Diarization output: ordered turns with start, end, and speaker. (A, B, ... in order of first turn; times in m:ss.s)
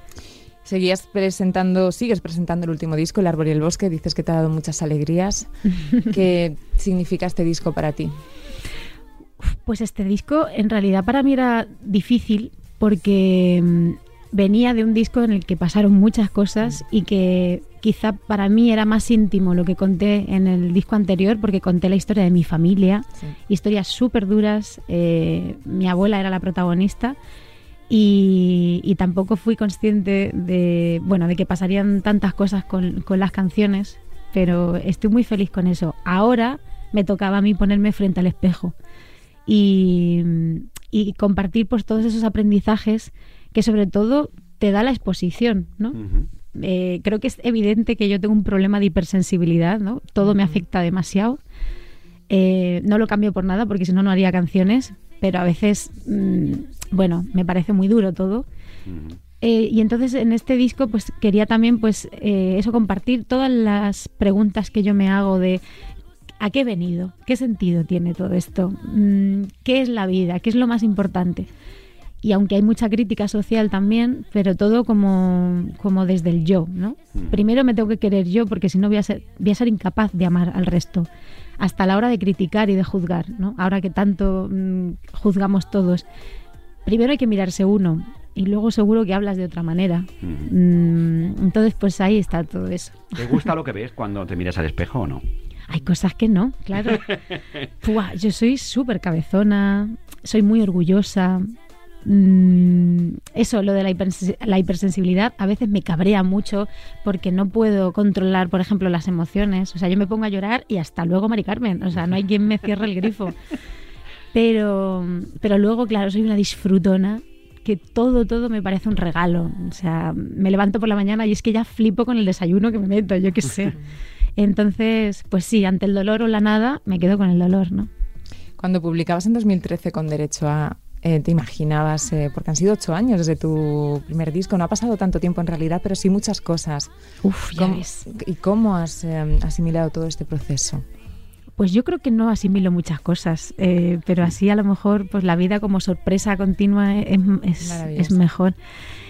0:00.6-0:05.5 A
0:06.1-0:08.2 A
0:09.4-0:27.2 B
0:27.9-0:38.8 B
0:39.5-0:46.0 B
0:45.9-0:46.3 C
0:46.5-0:51.4 B
0:52.3-0:58.5 B
0:58.9-0:59.2 C
0:59.4-1:05.6 B
1:06.4-1:11.5 B
1:12.2-1:21.1 B
1:17.2-1:17.4 C
1:21.6-1:26.0 B
1:26.9-1:33.2 B
1:30.2-1:30.5 C
1:33.2-1:35.2 C
1:35.7-1:37.1 B
1:36.9-1:37.2 C
1:37.8-1:41.5 B
1:42.0-1:53.4 B
1:54.3-2:03.8 B
2:04.4-2:07.9 B
2:08.6-2:16.9 A
2:17.2-2:18.0 B
2:17.5-2:20.8 A
2:21.6-2:28.6 B
2:27.6-2:28.2 A